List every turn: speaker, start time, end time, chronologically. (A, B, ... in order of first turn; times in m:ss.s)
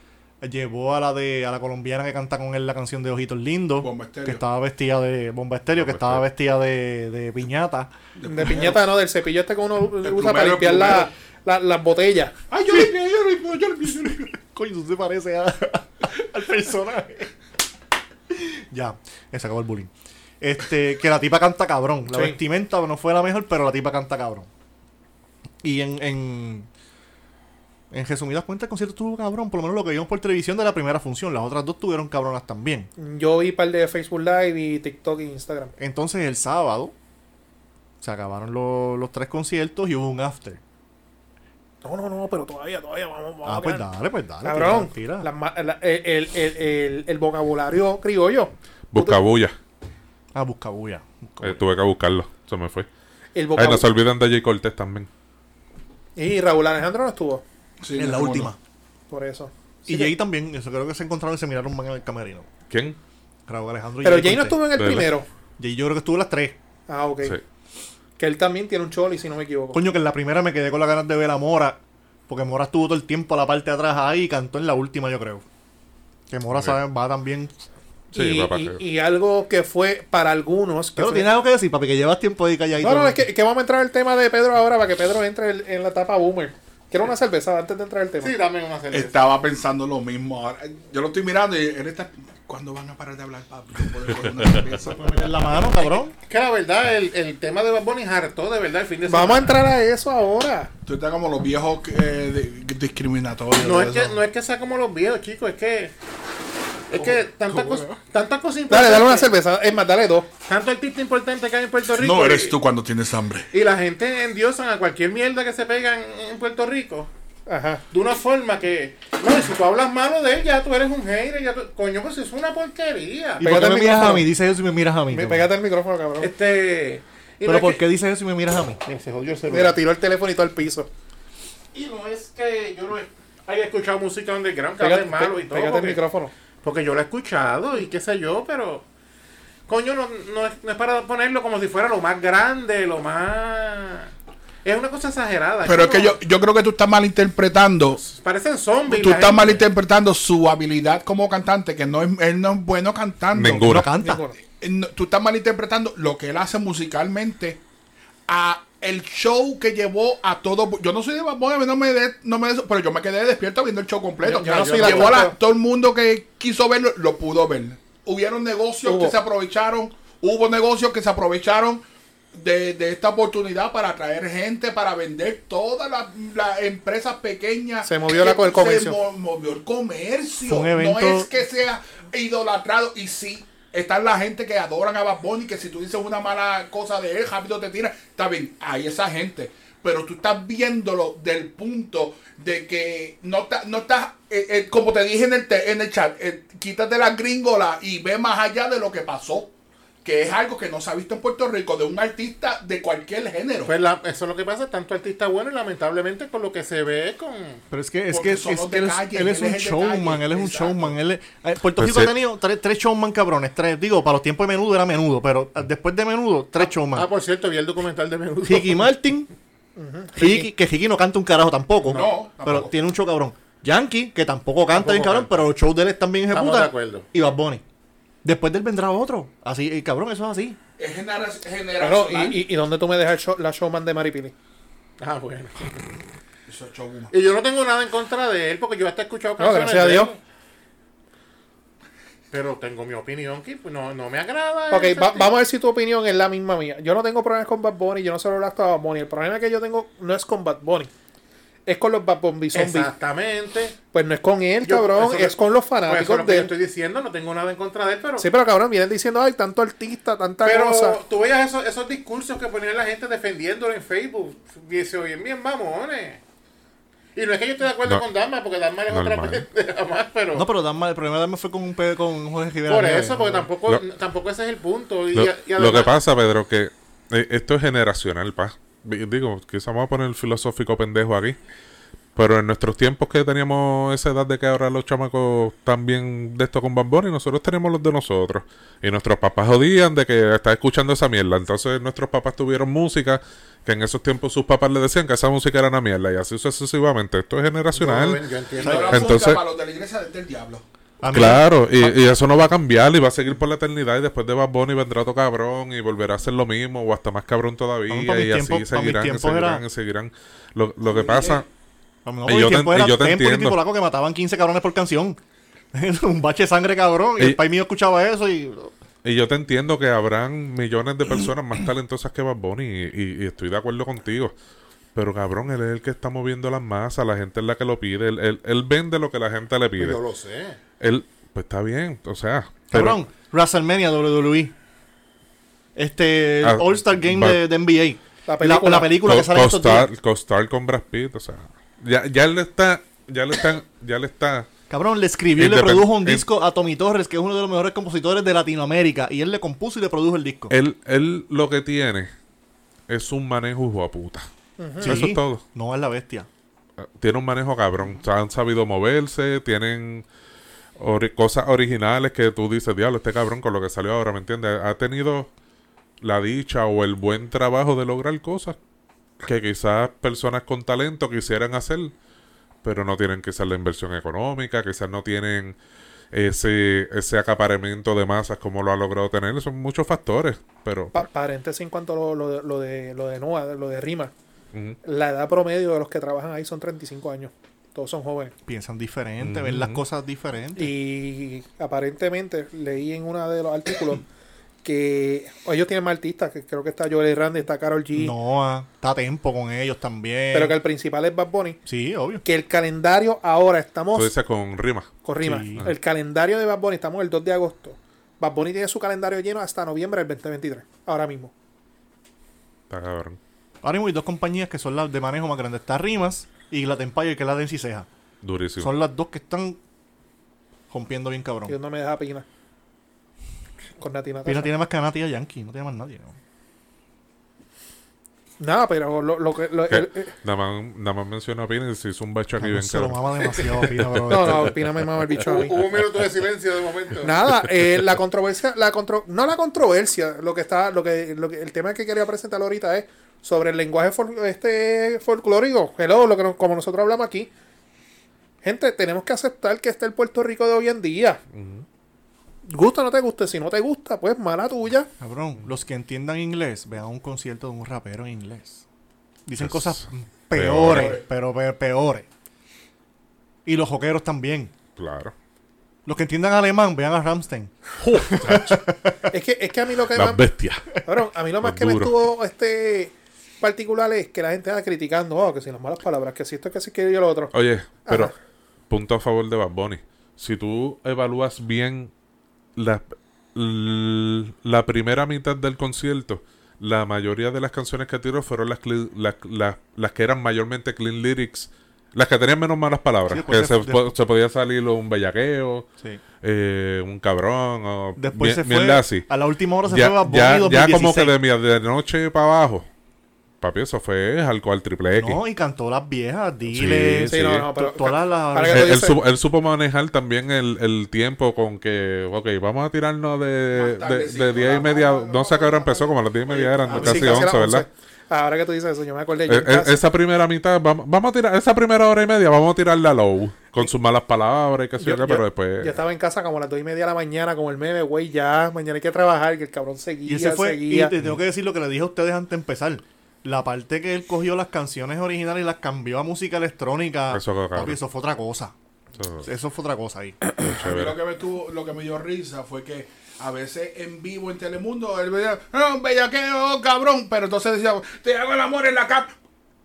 0:00.4-0:07.9 A
0:03.8-0:04.4 B
0:05.8-0:06.2 C
0:08.2-0:08.9 B
0:08.3-0:12.4 D
0:10.0-0:11.1 B
0:12.5-0:14.4 B
0:14.4-0:17.3 A
0:18.3-0:24.5 A
0:22.1-0:22.4 D
0:25.6-0:26.7 A
0:27.9-0:32.9 A
0:33.0-0:35.7 D
0:35.8-0:36.9 A
0:38.0-0:40.6 A
0:41.8-0:43.8 D
0:43.4-0:45.3 A
0:44.4-0:49.2 D
0:48.9-0:49.6 C
0:50.3-0:51.6 A
0:51.4-0:52.9 C
0:53.3-0:53.9 D
0:53.5-0:55.1 C
0:56.2-0:57.4 D
0:57.8-0:58.5 B
0:58.0-0:58.6 A
0:59.1-1:00.1 D
0:59.8-1:02.5 A
1:02.7-1:03.0 C
1:03.5-1:04.7 A
1:04.0-1:05.3 D
1:04.7-1:05.1 C
1:05.6-1:06.6 A
1:06.9-1:07.4 D
1:08.2-1:09.8 D
1:09.7-1:15.4 A
1:16.3-1:17.5 A
1:18.1-1:18.8 C
1:18.1-1:21.3 D
1:21.0-1:23.3 A
1:22.8-1:28.3 D
1:28.2-1:29.2 E
1:28.9-1:35.4 B
1:34.8-1:36.1 A
1:35.6-1:39.7 E
1:39.1-1:40.7 D
1:40.8-1:44.2 B
1:43.6-1:45.9 E
1:46.9-1:49.3 E
1:47.0-1:47.9 B
1:48.7-1:50.3 D
1:50.4-1:52.6 E
1:51.9-1:53.5 B
1:53.5-1:57.1 E
1:57.5-1:57.8 D
1:57.9-2:03.5 E
2:03.4-2:05.5 A
2:03.4-2:04.3 D
2:05.1-2:06.3 D
2:06.2-2:07.8 E
2:07.4-2:08.8 A
2:08.8-2:09.8 E
2:09.5-2:10.9 D
2:11.7-2:16.0 E
2:14.8-2:16.3 D
2:16.6-2:18.8 E
2:19.7-2:24.1 E
2:24.6-2:26.1 E
2:25.6-2:28.1 B
2:28.1-2:29.6 E
2:28.9-2:33.8 B
2:33.3-2:33.9 C
2:33.6-2:34.2 A
2:34.0-2:34.4 D
2:34.6-2:37.6 B
2:38.3-2:51.8 B
2:44.2-2:45.3 D
2:44.8-2:45.2 E
2:48.8-2:49.1 D
2:52.3-3:19.5 B
2:57.8-2:59.0 D
3:00.4-3:01.3 A
3:20.0-3:23.7 B
3:23.6-3:27.6 E
3:27.7-3:37.1 A
3:28.1-3:30.9 B
3:31.8-3:32.1 C
3:36.6-3:38.9 E
3:38.4-3:39.3 A
3:39.8-3:40.5 D
3:40.1-3:47.6 A
3:41.8-3:42.7 B
3:44.7-3:45.4 E
3:46.3-3:47.1 E
3:48.2-3:50.6 A
3:50.8-3:52.4 B
3:51.8-3:54.3 D
3:55.0-3:56.0 E
3:56.5-3:57.1 B
3:57.1-4:00.2 E
3:59.4-4:00.1 D
4:02.3-4:05.3 E
4:04.7-4:10.9 D
4:11.6-4:12.9 D
4:12.5-4:13.8 E
4:13.9-4:16.5 D
4:14.6-4:18.3 E
4:18.2-4:21.0 D
4:20.4-4:26.2 E
4:27.1-4:30.5 E
4:28.9-4:29.5 C
4:30.3-4:33.5 A
4:32.7-4:36.0 E
4:35.1-4:41.4 C
4:42.2-4:59.4 C
4:57.7-4:59.1 E
4:58.6-5:00.6 B
5:01.0-5:02.0 A
5:01.1-5:11.5 C
5:07.9-5:09.6 A
5:10.8-5:11.4 B
5:12.0-5:15.2 A
5:12.2-5:13.6 C
5:15.7-5:18.7 A
5:19.0-5:24.3 C
5:24.9-5:30.0 C
5:29.8-5:30.6 E
5:30.8-5:33.0 C
5:32.7-5:34.5 A
5:35.8-5:39.9 A
5:36.4-5:37.4 C
5:38.3-5:38.9 D
5:39.0-5:44.5 C
5:44.7-5:50.5 A
5:45.4-5:46.2 C
5:50.5-5:52.1 C
5:52.9-5:54.2 C
5:54.6-5:55.1 D
5:54.8-5:55.4 C
5:54.8-5:56.3 A
5:56.8-6:00.0 C
6:00.8-6:05.3 C
6:06.0-6:08.6 C
6:09.2-6:11.9 C
6:12.6-6:15.6 C
6:16.1-6:21.0 C
6:20.9-6:24.1 D
6:24.5-6:24.8 C
6:24.8-6:28.3 D
6:28.4-6:30.7 A
6:29.2-6:29.8 C
6:30.6-6:34.0 D
6:34.6-6:38.1 D
6:37.9-6:40.6 A
6:40.3-6:41.6 D
6:41.6-6:42.2 A
6:42.2-6:44.1 D
6:43.9-6:45.0 C
6:45.0-6:51.3 D
6:45.2-6:45.7 A
6:52.7-6:53.2 C
6:53.6-6:57.9 A
6:58.2-6:58.7 C
6:58.6-6:59.6 A
7:00.7-7:01.6 A
7:01.5-7:02.2 D
7:03.8-7:04.5 D
7:04.2-7:06.2 A
7:08.4-7:10.1 D
7:09.7-7:13.0 C
7:12.4-7:14.5 A
7:13.6-7:14.5 C
7:14.1-7:15.6 D
7:15.2-7:17.2 E
7:17.0-7:27.3 D
7:28.4-7:31.2 D
7:31.3-7:31.6 C
7:32.5-7:34.9 D
7:35.0-7:38.6 A
7:39.2-7:42.1 A
7:39.4-7:41.0 C
7:40.7-7:41.0 B
7:43.4-7:44.5 A
7:44.8-7:45.1 C
7:45.8-7:48.9 A
7:47.9-7:48.6 D
7:49.1-7:50.3 D
7:49.9-7:50.8 C
7:50.8-7:57.3 D
7:51.4-7:51.9 C
7:57.3-7:58.1 C
7:57.8-7:58.1 D
7:58.7-8:01.9 C
8:02.6-8:15.7 C
8:13.1-8:13.9 A
8:16.2-8:19.1 C
8:18.0-8:21.1 A
8:19.6-8:22.7 C
8:23.4-8:25.2 C
8:25.0-8:28.9 A
8:26.5-8:27.5 C
8:27.1-8:29.0 D
8:28.4-8:37.6 C
8:33.5-8:37.2 B
8:36.4-8:39.8 D
8:39.3-8:45.8 C
8:44.8-8:50.9 D
8:50.0-8:58.5 A
8:57.1-8:57.8 C
8:59.0-8:59.3 C
8:59.2-9:00.2 A
9:00.4-9:01.0 C
9:00.5-9:09.1 B